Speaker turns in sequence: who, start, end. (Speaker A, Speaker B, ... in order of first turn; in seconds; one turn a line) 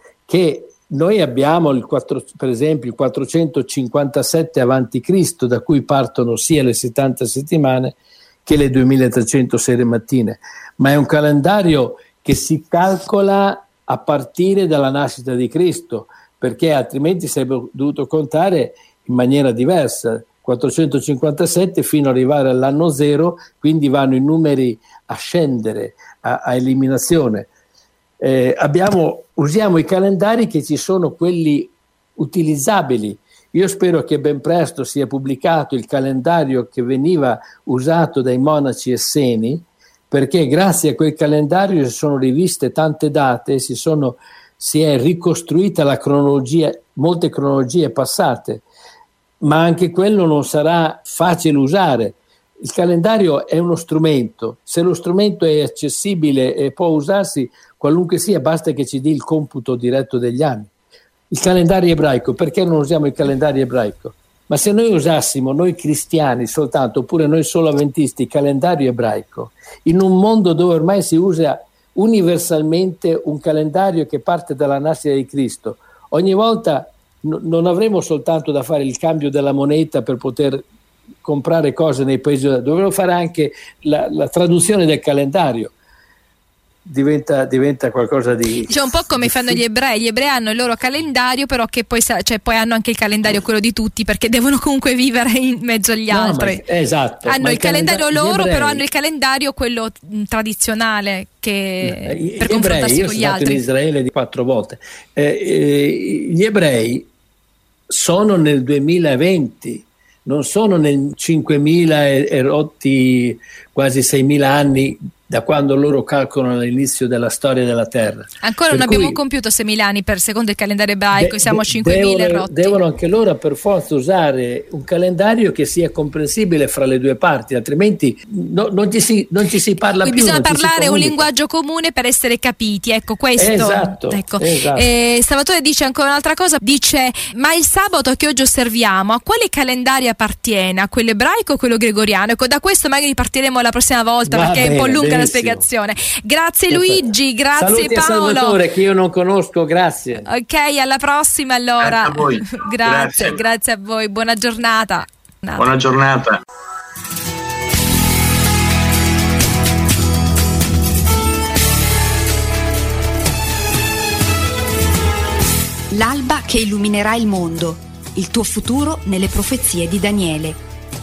Speaker A: 0.3-27.5
Speaker A: 28.2-48.6
Speaker A: 49.4-60.7
Speaker A: 61.3-80.7
Speaker A: 81.2-85.7
Speaker A: 86.8-89.6
Speaker B: 88.7-96.6
Speaker A: 96.1-98.8
Speaker B: 97.2-103.6
Speaker A: 101.8-107.1
Speaker A: 107.9-119.2
Speaker B: 118.4-122.8
Speaker A: 121.2-131.3
Speaker B: 130.0-148.6
Speaker A: 133.4-134.9
Speaker A: 144.3-145.7
Speaker A: 146.7-150.3
Speaker B: 150.3-155.7
Speaker C: 151.8-153.4
Speaker C: 155.6-156.4
Speaker D: 165.9-170.6